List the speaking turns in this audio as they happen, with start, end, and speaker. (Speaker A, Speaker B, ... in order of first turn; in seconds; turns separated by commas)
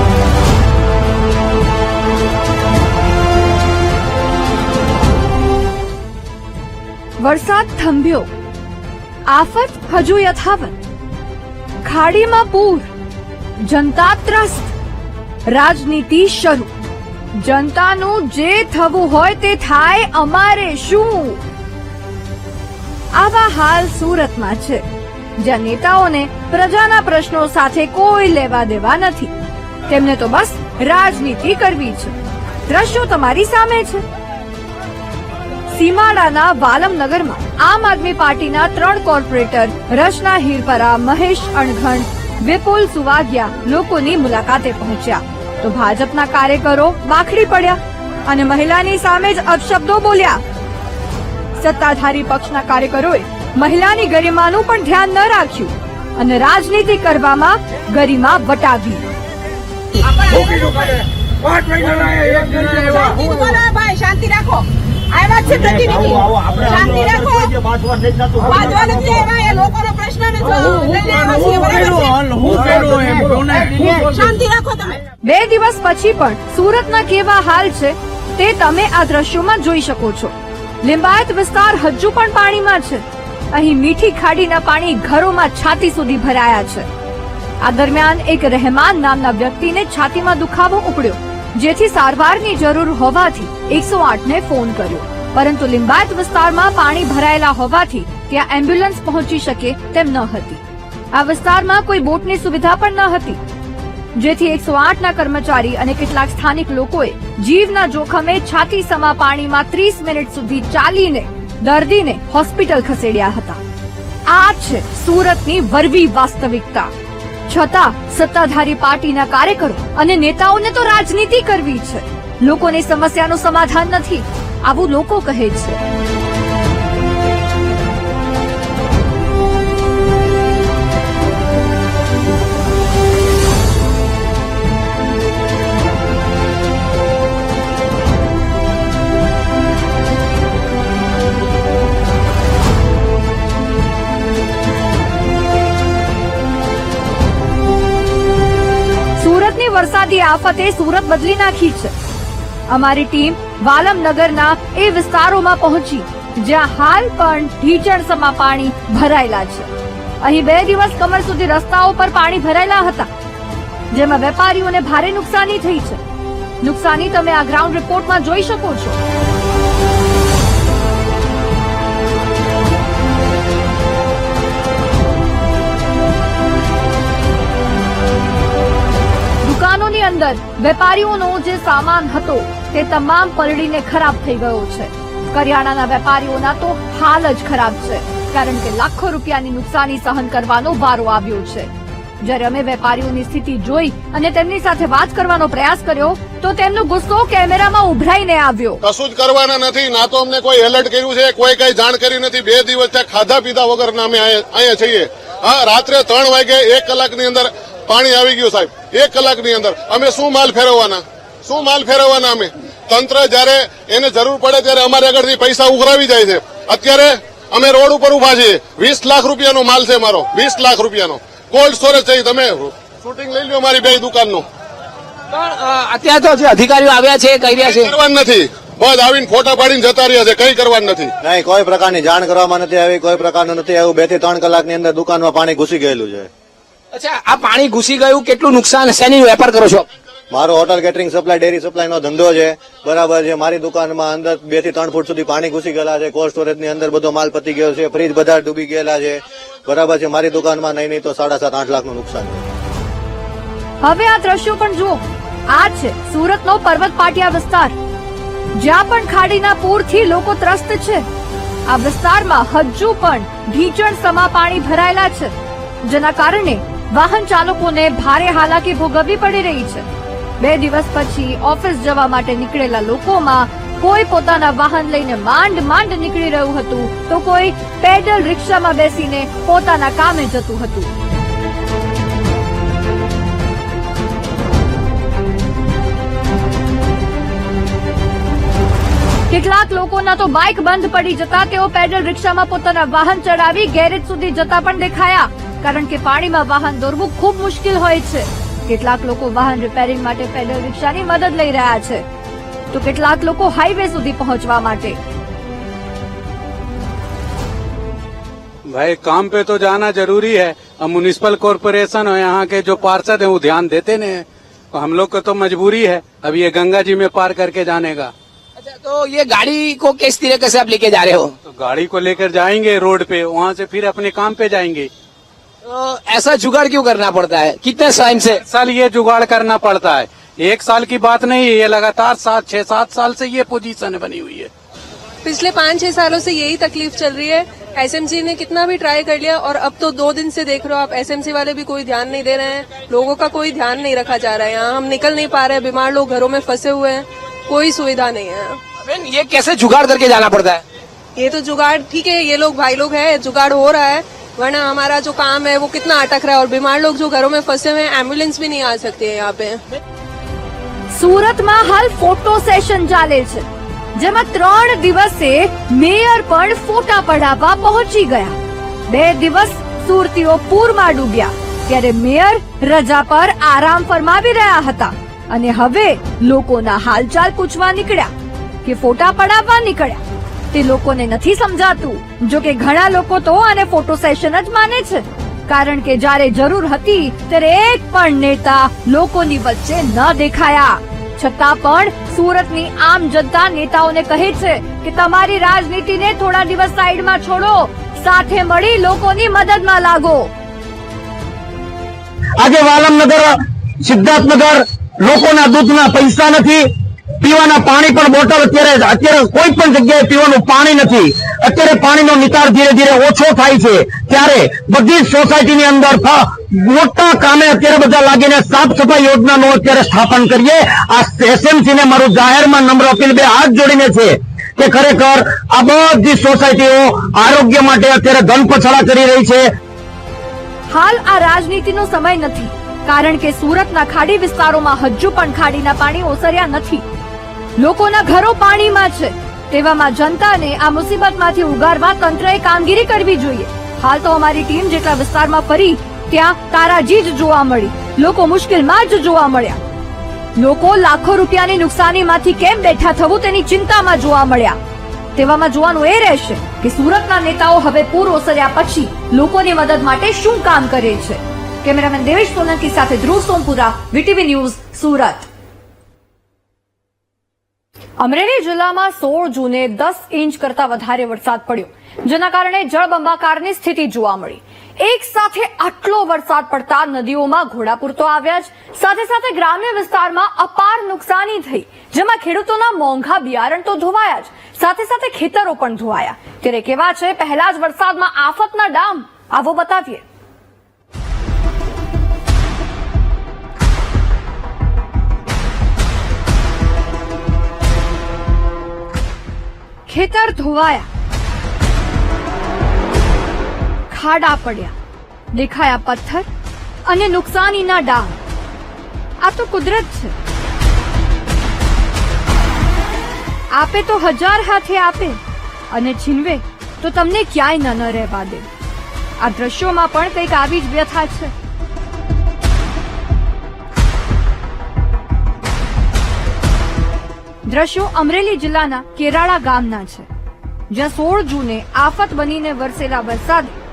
Speaker A: 7.2-8.3, Speaker A: 9.3-10.8, Speaker A: 11.8-12.9, Speaker A: 13.6-14.7, Speaker A: 15.5-16.7, Speaker A: 17.4-21.4, Speaker A: 23.1-24.8, Speaker A: 25.4-29.3, Speaker A: 29.9-32.1, Speaker A: 32.7-34.0, Speaker A: 35.7-50.4, Speaker A: 51.6-59.0, Speaker B: 60.0-60.8, Speaker B: 62.3-67.5, Speaker B: 68.4-72.1, Speaker B: 73.9-75.0, Speaker A: 75.2-86.9, Speaker A: 87.6-103.4, Speaker A: 104.2-113.6, Speaker A: 114.3-116.9, Speaker A: 117.5-125.8, Speaker A: 149.2-151.9, Speaker A: 152.7-159.7, Speaker A: 160.2-163.1, Speaker A: 163.9-166.0, Speaker A: 166.6-169.0, Speaker A: 179.4-191.7, Speaker A: 192.2-198.8, Speaker C: 198.8-224.4, Speaker D: 225.3-227.9, Speaker C: 227.6-231.1, Speaker E: 231.2-236.3, Speaker D: 236.9-239.8, Speaker E: 240.3-252.4, Speaker A: 253.8-257.7, Speaker A: 258.6-261.1, Speaker A: 261.7-269.9, Speaker A: 270.4-280.9, Speaker A: 289.3-302.0, Speaker A: 302.7-305.0, Speaker F: 308.7-318.1, Speaker D: 318.6-321.4, Speaker F: 321.4-324.9, Speaker D: 325.6-328.4, Speaker F: 328.4-334.5, Speaker G: 335.2-348.6, Speaker D: 348.8-350.6, Speaker G: 351.1-359.6, Speaker A: 360.9-368.4, Speaker A: 368.9-378.1, Speaker A: 378.6-380.0, Speaker A: 380.5-400.3, Speaker H: 402.4-406.6, Speaker H: 407.2-429.5, Speaker A: 430.7-436.8, Speaker A: 437.6-449.6, Speaker A: 450.4-454.6, Speaker A: 455.1-465.3, Speaker A: 468.0-490.0, Speaker A: 499.9-500.9, Speaker A: 503.9-504.7, Speaker A: 505.3-506.3, Speaker A: 506.9-508.2, Speaker A: 509.2-510.1, Speaker A: 513.5-515.2, Speaker A: 515.7-518.5, Speaker A: 519.2-521.3, Speaker A: 527.5-530.1, Speaker A: 530.7-533.6